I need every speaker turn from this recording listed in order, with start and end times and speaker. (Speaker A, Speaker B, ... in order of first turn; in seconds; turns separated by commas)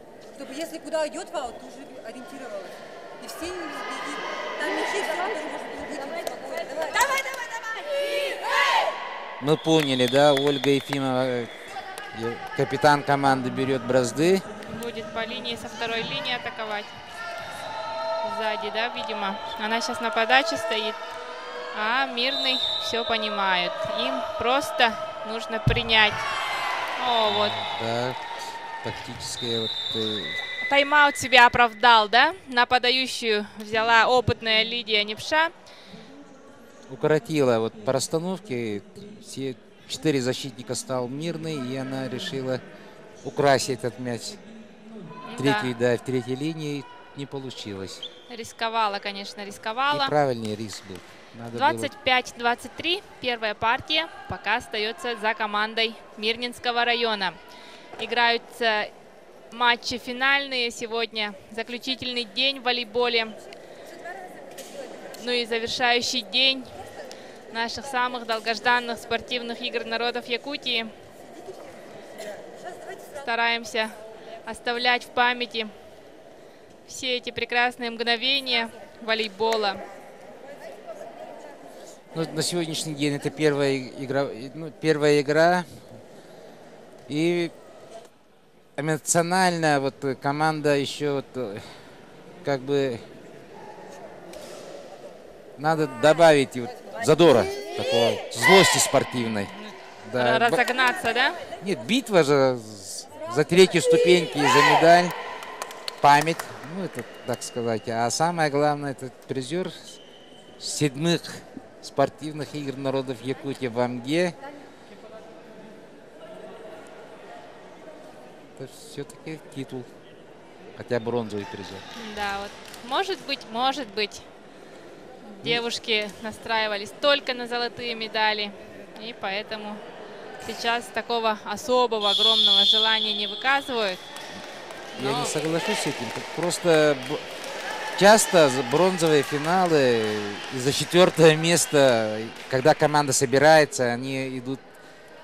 Speaker A: 0.3-7.8, Speaker B: 9.4-14.4, Speaker C: 14.7-16.9, Speaker C: 18.2-21.0, Speaker C: 21.7-26.2, Speaker C: 27.0-27.6, Speaker B: 27.2-30.4, Speaker C: 30.6-35.5, Speaker B: 36.9-42.6, Speaker B: 43.2-44.4, Speaker C: 45.2-45.7, Speaker B: 45.4-48.0, Speaker C: 48.3-50.1, Speaker B: 49.9-51.9, Speaker C: 51.5-57.4, Speaker C: 58.0-58.9, Speaker C: 59.5-63.4, Speaker A: 64.1-65.0, Speaker C: 65.2-66.8, Speaker C: 67.5-70.9, Speaker C: 73.2-75.7, Speaker C: 76.9-79.8, Speaker B: 82.1-85.8, Speaker B: 87.1-87.5, Speaker B: 88.8-91.7, Speaker B: 92.4-93.0, Speaker B: 95.6-99.5, Speaker B: 100.0-100.6, Speaker C: 100.1-101.4, Speaker B: 101.6-105.1, Speaker B: 106.0-110.0, Speaker B: 110.6-114.4, Speaker B: 118.6-119.9, Speaker B: 120.7-121.8, Speaker C: 121.9-124.2, Speaker C: 125.2-129.8, Speaker C: 130.4-134.0, Speaker C: 134.9-135.3, Speaker B: 134.9-137.3, Speaker B: 137.9-144.6